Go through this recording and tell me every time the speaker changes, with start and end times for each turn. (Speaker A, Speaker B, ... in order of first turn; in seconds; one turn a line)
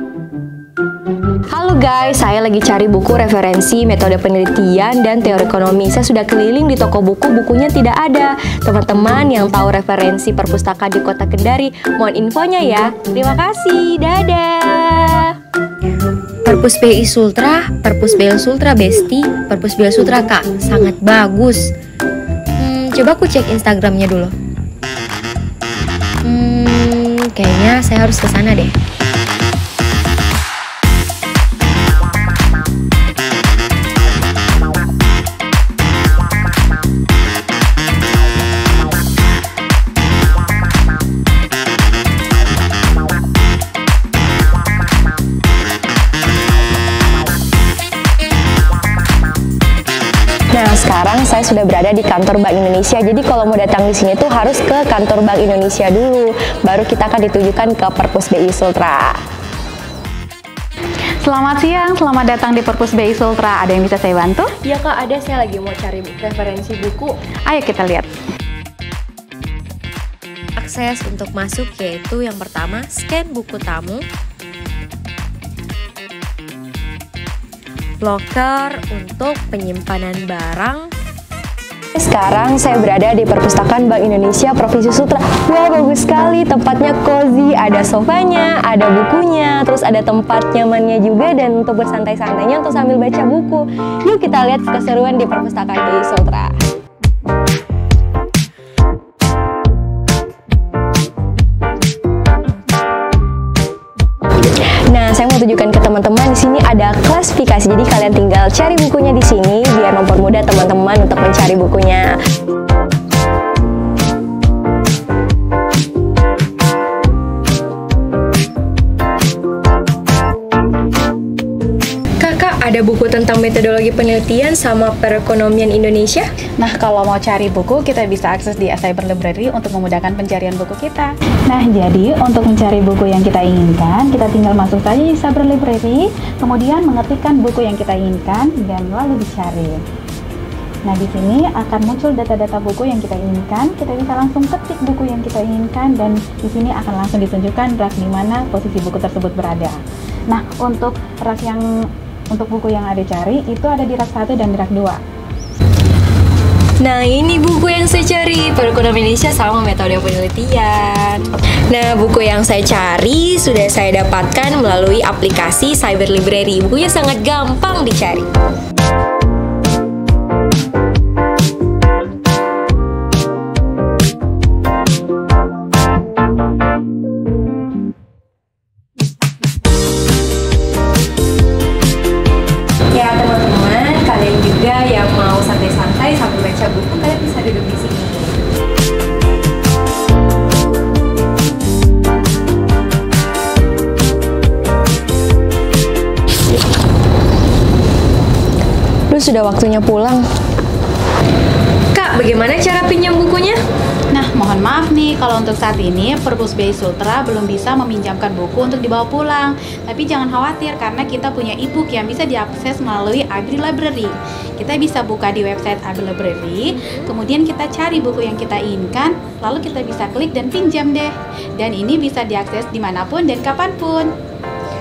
Speaker A: 1.5-15.3
Speaker A: 16.4-21.7
Speaker A: 22.6-24.3
Speaker A: 26.2-28.7
Speaker A: 50.5-59.2
Speaker B: 61.2-64.5
Speaker A: 64.6-67.2
Speaker B: 67.5-68.1
Speaker A: 70.6-74.0
Speaker A: 78.0-80.9
Speaker A: 82.0-96.5
Speaker A: 104.4-112.2
Speaker A: 122.2-126.3
Speaker B: 126.6-139.8
Speaker B: 140.9-149.8
Speaker B: 150.3-151.6
Speaker B: 152.3-155.0
Speaker A: 156.8-168.3
Speaker A: 182.9-188.4
Speaker A: 199.1-200.3
Speaker A: 201.9-203.6
Speaker B: 204.1-224.1
Speaker A: 216.7-217.1